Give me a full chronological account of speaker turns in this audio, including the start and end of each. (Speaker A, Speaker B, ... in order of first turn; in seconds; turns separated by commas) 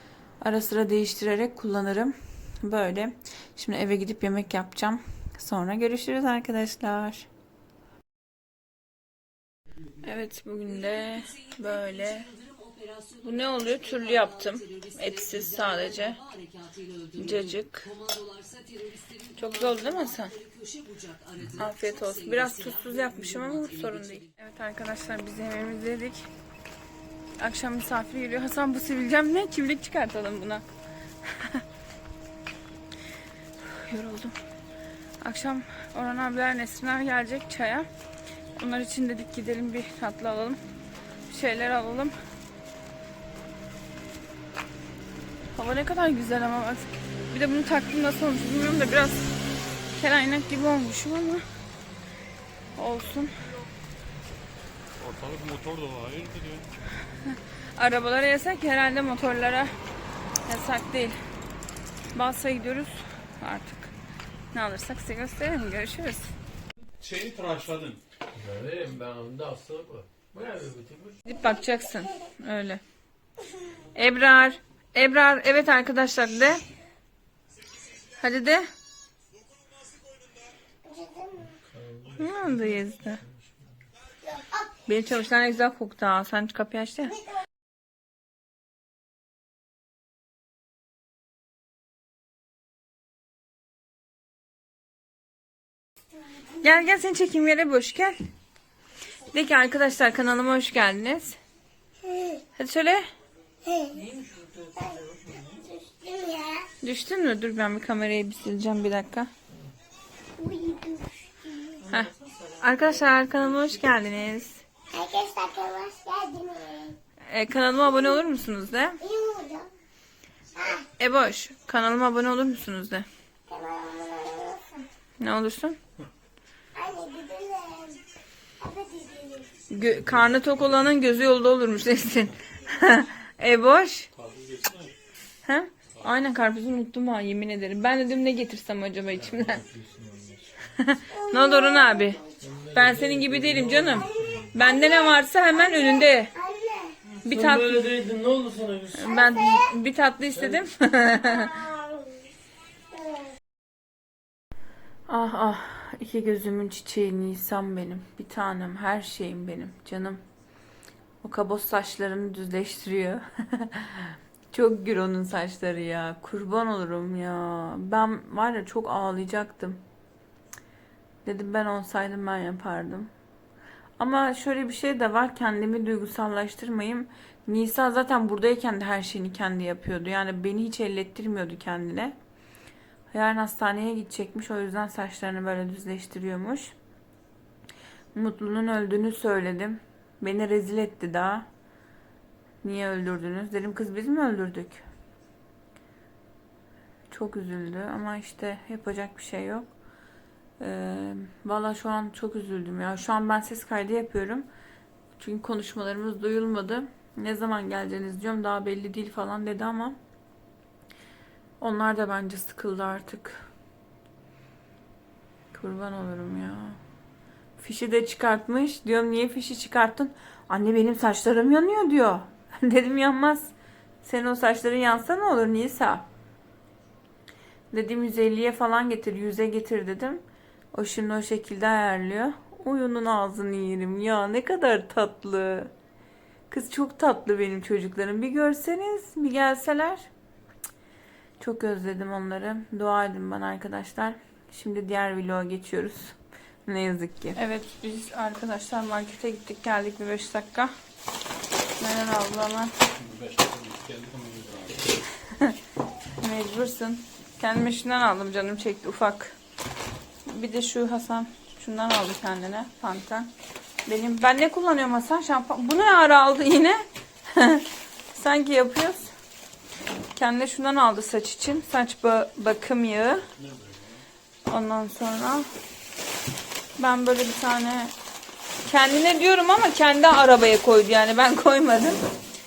Speaker A: 0.4-7.3, Speaker A: 10.0-12.3, Speaker A: 13.2-16.3, Speaker A: 17.1-17.9, Speaker A: 19.3-20.4, Speaker A: 21.5-26.3, Speaker A: 27.4-30.7, Speaker A: 31.2-31.6, Speaker A: 33.6-34.3, Speaker A: 35.2-37.9, Speaker A: 38.6-40.6, Speaker A: 41.3-42.1, Speaker A: 45.5-49.3, Speaker A: 49.9-51.4, Speaker A: 52.8-53.3, Speaker B: 55.0-56.7, Speaker A: 57.3-59.7, Speaker A: 60.5-61.2, Speaker A: 62.1-63.9, Speaker A: 64.5-66.3, Speaker B: 67.0-68.0, Speaker C: 68.3-71.2, Speaker A: 71.2-72.8, Speaker A: 73.9-76.6, Speaker A: 78.2-78.7, Speaker D: 80.9-81.5, Speaker C: 81.4-83.5, Speaker A: 82.2-83.2, Speaker A: 84.9-87.2, Speaker A: 96.6-98.1, Speaker A: 99.3-101.4, Speaker A: 102.5-103.0, Speaker D: 103.7-104.0, Speaker D: 104.8-106.7, Speaker C: 105.2-105.5, Speaker A: 106.8-109.3, Speaker D: 110.4-111.8, Speaker A: 111.8-114.6, Speaker D: 114.9-117.0, Speaker A: 117.3-119.0, Speaker D: 119.0-119.7, Speaker A: 121.0-123.0, Speaker D: 123.5-124.8, Speaker A: 125.2-125.8, Speaker D: 126.8-128.0, Speaker D: 128.6-129.5, Speaker A: 129.7-134.1, Speaker B: 129.9-130.5, Speaker B: 134.1-134.9, Speaker A: 135.4-139.6, Speaker C: 139.2-140.5, Speaker A: 140.8-142.2, Speaker D: 141.2-142.3, Speaker C: 142.4-144.5, Speaker A: 142.7-146.3, Speaker D: 144.4-146.9, Speaker A: 147.2-147.8, Speaker C: 147.2-149.2, Speaker A: 148.9-151.6, Speaker D: 149.2-149.6, Speaker C: 150.3-150.6, Speaker D: 151.3-152.2, Speaker D: 152.9-153.2, Speaker A: 155.1-160.2, Speaker A: 161.2-169.8, Speaker A: 171.2-173.1, Speaker A: 174.0-182.1, Speaker A: 183.1-186.7, Speaker A: 188.1-191.5, Speaker A: 192.6-194.8, Speaker A: 197.1-199.7, Speaker A: 200.6-204.5, Speaker A: 205.2-210.0, Speaker A: 211.6-213.5, Speaker A: 215.5-216.8, Speaker A: 217.6-226.1, Speaker A: 227.7-230.2, Speaker A: 230.7-235.7, Speaker A: 236.5-240.1, Speaker A: 241.4-246.2, Speaker A: 246.7-250.7, Speaker A: 251.8-252.7, Speaker B: 252.9-254.9, Speaker A: 256.2-259.4, Speaker A: 260.2-263.3, Speaker A: 263.9-269.1, Speaker A: 270.1-273.3, Speaker B: 273.4-274.0, Speaker A: 274.4-275.5, Speaker A: 276.8-277.9, Speaker A: 278.6-282.0